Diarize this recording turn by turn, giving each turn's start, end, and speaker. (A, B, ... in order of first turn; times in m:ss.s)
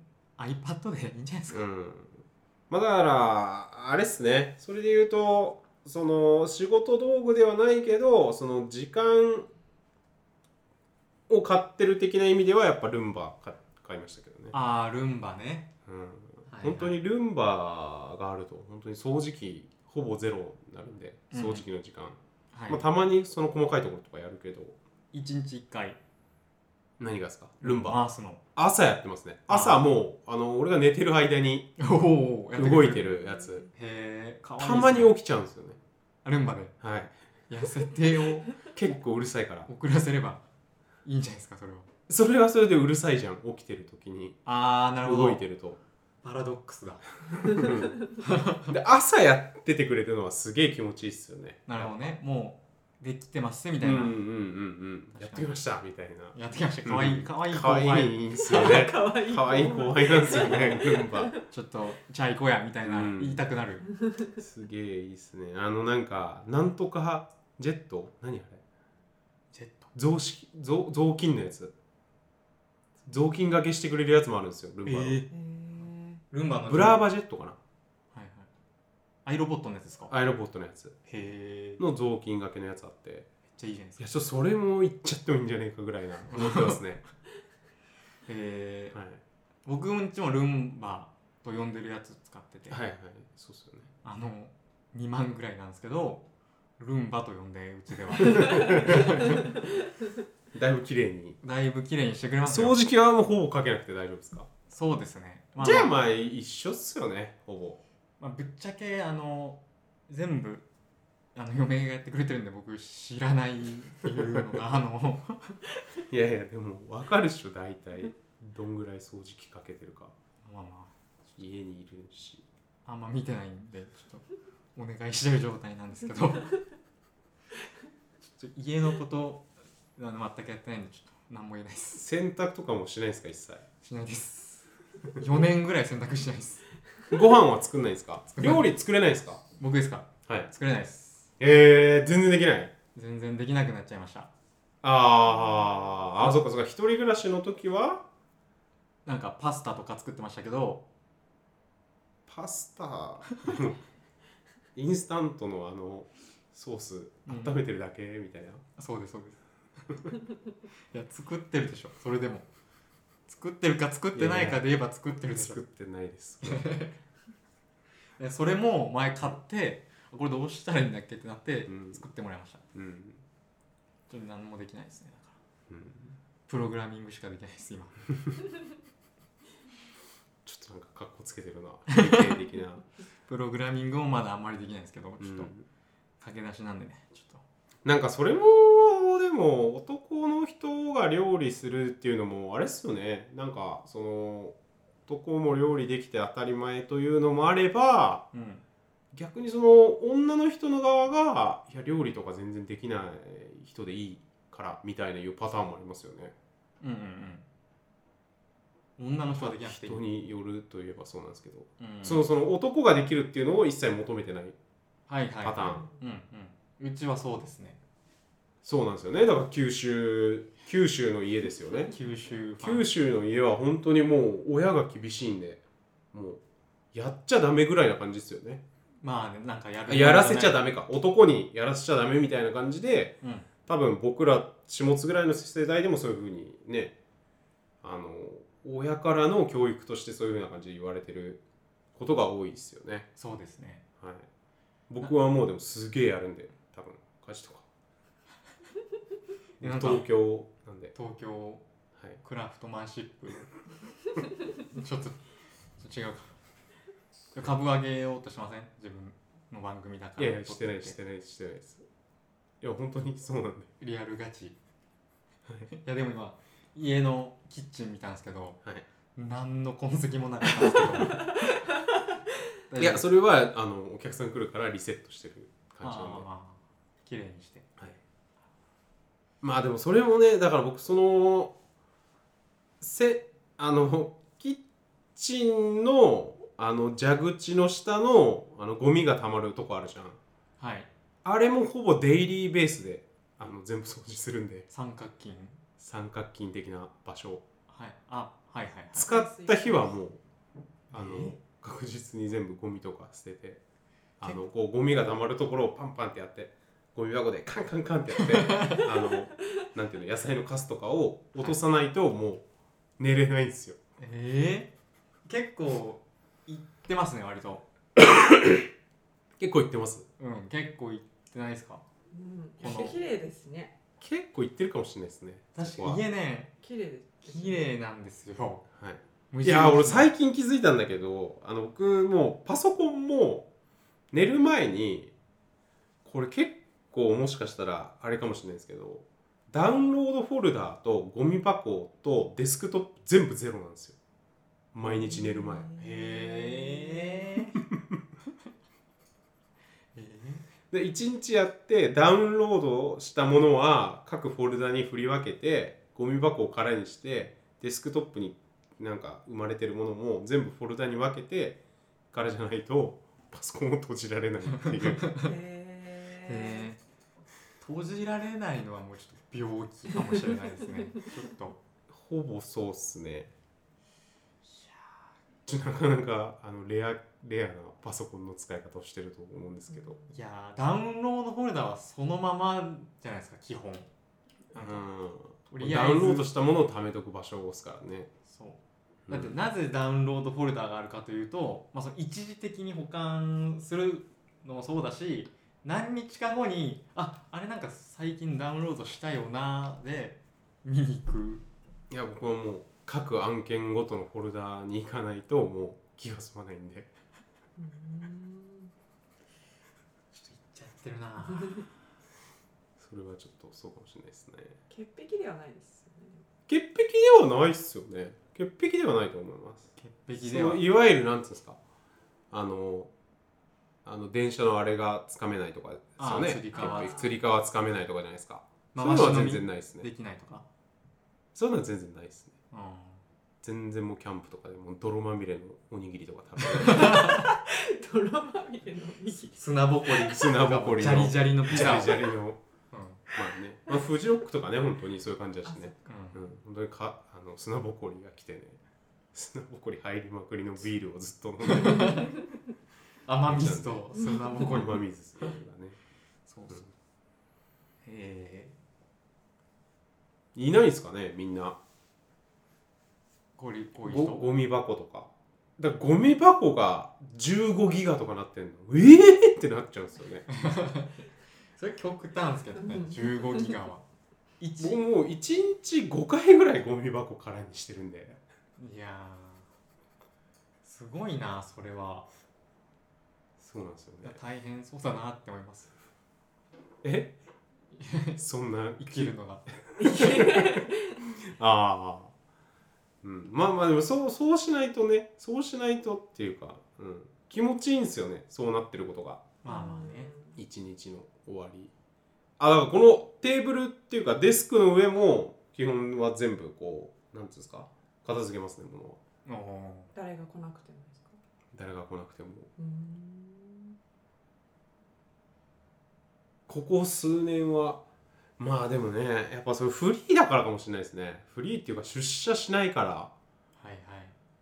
0:00.4-0:01.7 A
0:01.5-0:09.5 B
0:11.3-0:14.6 B
0:14.5-0:15.7 A
0:15.9-0:22.2 B
0:16.5-0:17.0 A
0:21.3-0:21.7 A
0:22.5-0:22.9 A
0:22.7-0:24.8 B
0:25.1-0:26.0 A
0:27.0-0:28.0 B
0:27.6-0:28.4 A
0:28.6-0:31.8 B
0:29.5-0:29.8 A
0:31.8-0:33.2 A
0:32.6-0:33.7 B
0:33.7-0:35.2 A
0:34.6-0:35.8 B
0:36.2-0:36.8 A
0:36.8-0:37.1 B
0:37.5-0:38.6 A
0:38.7-0:39.7 B
0:39.7-0:40.4 A
0:41.0-0:41.9 A
0:42.1-0:44.4 B
0:44.5-0:45.4 A
0:45.0-0:45.8 B
0:46.2-0:47.7 A
0:47.4-0:48.0 B
0:48.2-0:48.7 A
0:48.7-0:52.1 B
0:51.7-0:54.2 A
0:53.8-1:01.3 B
0:55.2-0:55.6 A
0:56.3-0:58.2 A
0:58.4-1:01.4 C
1:00.3-1:00.7 A
1:01.5-1:03.9 A
1:02.8-1:03.4 B
1:03.9-1:04.4 C
1:04.4-1:08.6 B
1:09.5-1:09.9 A
1:09.9-1:11.7 B
1:13.1-1:15.2 B
1:14.9-1:15.3 A
1:15.3-1:16.2 C
1:16.3-1:17.0 A
1:16.7-1:17.6 B
1:18.1-1:18.5 A
1:19.3-1:20.1 A
1:20.1-1:21.0 B
1:21.1-1:21.8 A
1:21.8-1:23.3 B
1:23.5-1:24.3 A
1:24.0-1:27.0 B
1:26.3-1:26.8 A
1:28.3-1:29.0 A
1:28.9-1:29.2 B
1:29.7-1:32.8 A
1:32.7-1:33.9 B
1:34.0-1:36.2 A
1:36.8-1:39.5 A
1:38.2-1:39.5 B
1:40.5-1:41.4 B
1:41.4-1:42.8 A
1:42.4-1:44.5 B
1:44.7-1:46.0 A
1:45.6-1:47.8 B
1:48.2-1:50.7 A
1:51.4-1:55.6 A
1:54.2-1:54.6 B
1:56.1-2:00.1 B
2:00.4-2:00.9 A
2:01.4-2:02.4 B
2:02.9-2:06.6 A
2:08.2-2:12.1 A
2:12.0-2:13.7 B
2:13.8-2:16.6 A
2:17.1-2:19.4 B
2:18.4-2:18.7 A
2:19.6-2:21.3 A
2:21.4-2:22.7 B
2:23.0-2:24.3 A
2:24.8-2:28.0 B
2:29.1-2:30.8 A
2:32.3-2:33.8 B
2:34.8-2:38.6 B
2:37.3-2:37.6 A
2:38.8-2:39.4 A
2:40.9-2:42.5 A
2:43.3-2:45.6 A
2:44.1-2:44.6 B
2:45.3-2:46.8 B
2:46.4-2:46.9 A
2:48.2-2:52.6 A
2:51.7-2:52.0 B
2:52.7-2:53.2 B
2:54.1-2:55.4 A
2:55.7-2:56.2 B
2:56.5-2:58.0 A
3:00.4-3:02.9 B
3:01.9-3:02.4 A
3:03.3-3:05.5 A
3:05.2-3:05.6 B
3:06.2-3:07.4 A
3:07.8-3:14.6 B
3:15.1-3:18.3 B
3:18.3-3:18.6 A
3:19.1-3:26.3 B
3:26.8-3:27.4 A
3:29.0-3:30.0 A
3:29.4-3:34.6 B
3:31.8-3:32.3 A
3:35.1-3:37.8 A
3:35.4-3:35.8 B
3:35.6-3:36.0 C
3:38.6-3:42.0 B
3:41.9-3:42.9 A
3:42.6-3:45.6 B
3:46.1-3:46.4 B
3:46.9-3:48.6 B
3:49.0-3:50.6 A
3:49.9-3:57.0 B
3:53.2-3:53.5 A
3:57.8-4:01.4 B
4:02.0-4:03.1 B
4:03.2-4:03.8 A
4:04.0-4:04.3 B
4:04.9-4:07.7 B
4:09.6-4:10.9 B
4:09.6-4:10.1 A
4:11.0-4:11.6 A
4:12.2-4:13.5 A
4:14.7-4:15.2 A
4:15.8-4:16.4 A
4:17.3-4:21.0 A
4:20.2-4:21.9 B
4:22.6-4:23.7 B
4:23.8-4:24.6 A
4:25.7-4:28.6 A
4:29.2-4:31.3 A
4:32.7-4:33.1 A
4:32.8-4:36.3 B
4:35.8-4:37.7 A
4:39.4-4:41.6 B
4:42.8-4:44.6 B
4:45.2-4:50.2 B
4:50.6-4:50.9 A
4:51.2-4:54.7 B
4:54.7-4:55.6 A
4:55.8-4:57.4 B
4:57.7-4:59.1 A
4:59.0-5:00.2 B
4:59.1-5:00.0 C
5:00.9-5:01.4 A
5:00.9-5:03.6 B
5:04.2-5:12.4 B
5:08.2-5:08.9 A
5:13.0-5:13.8 B
5:14.0-5:14.7 A
5:15.3-5:17.6 A
5:18.0-5:18.7 B
5:19.4-5:20.1 B
5:20.2-5:21.8 A
5:22.1-5:23.8 C
5:22.6-5:23.0 A
5:24.0-5:26.0 B
5:25.6-5:26.5 A
5:26.6-5:27.6 C
5:27.2-5:28.7 A
5:28.8-5:33.5 B
5:29.3-5:30.1 A
5:34.1-5:35.1 B
5:36.0-5:44.0 B
5:44.7-5:45.7 B
5:44.8-5:47.4 C
5:45.8-5:47.6 A
5:50.0-5:50.4 A
5:50.7-6:01.6 B
6:02.1-6:05.1 B
6:04.5-6:05.3 A
6:05.2-6:06.7 C
6:06.2-6:06.8 A
6:07.6-6:11.6 A
6:10.0-6:10.3 C
6:11.9-6:13.3 B
6:15.5-6:20.0 B
6:20.1-6:23.9 A
6:24.5-6:24.9 A
6:24.6-6:28.1 B
6:25.5-6:26.3 A
6:28.3-6:41.4 A
6:29.1-6:29.3 B
6:41.9-6:46.9 B
6:47.6-6:48.7 C
6:50.1-6:51.6 A
6:51.3-6:51.6 C
6:52.8-6:54.6 B
6:54.7-6:56.2 C
6:56.5-7:01.6 B
6:59.8-7:00.6 A
7:02.3-7:02.9 B
7:03.8-7:09.9 B
7:06.0-7:07.1 A
7:06.5-7:07.1 C
7:08.7-7:10.4 A
7:11.4-7:12.3 B
7:12.5-7:13.0 A
7:13.4-7:17.0 B
7:16.6-7:17.3 A
7:16.6-7:19.4 C
7:19.4-7:22.1 A
7:20.1-7:22.4 B
7:21.7-7:22.0 C
7:22.7-7:23.0 A
7:23.1-7:28.6 B
7:25.5-7:25.7 C
7:25.8-7:26.3 A
7:29.1-7:32.1 B
7:31.4-7:32.2 A
7:33.1-7:34.8 A
7:33.3-7:35.8 B
7:34.0-7:34.4 C
7:36.3-7:36.6 A
7:37.9-7:38.5 A
7:40.4-7:41.6 B
7:43.4-7:44.3 A
7:43.8-7:50.3 B
7:50.3-7:51.0 A
7:51.6-7:53.8 A
7:52.6-7:53.7 C
7:54.4-7:54.8 A
7:54.6-7:58.2 B
7:58.6-7:59.4 A
8:00.6-8:02.1 A
8:03.4-8:04.2 B
8:04.0-8:05.7 A
8:06.8-8:07.2 B
8:07.7-8:08.2 A
8:08.2-8:09.1 B
8:08.8-8:09.5 A
8:09.7-8:10.7 B
8:09.8-8:11.2 C
8:11.2-8:12.1 B
8:13.0-8:19.2 B
8:19.4-8:20.1 A
8:19.5-8:20.4 C
8:20.4-8:21.7 B
8:22.4-8:29.0 B
8:29.3-8:29.9 A
8:29.9-8:31.2 C
8:31.5-8:32.5 B
8:32.6-8:33.8 C
8:36.5-8:37.8 B
8:38.4-8:43.1 B
8:43.6-8:44.2 A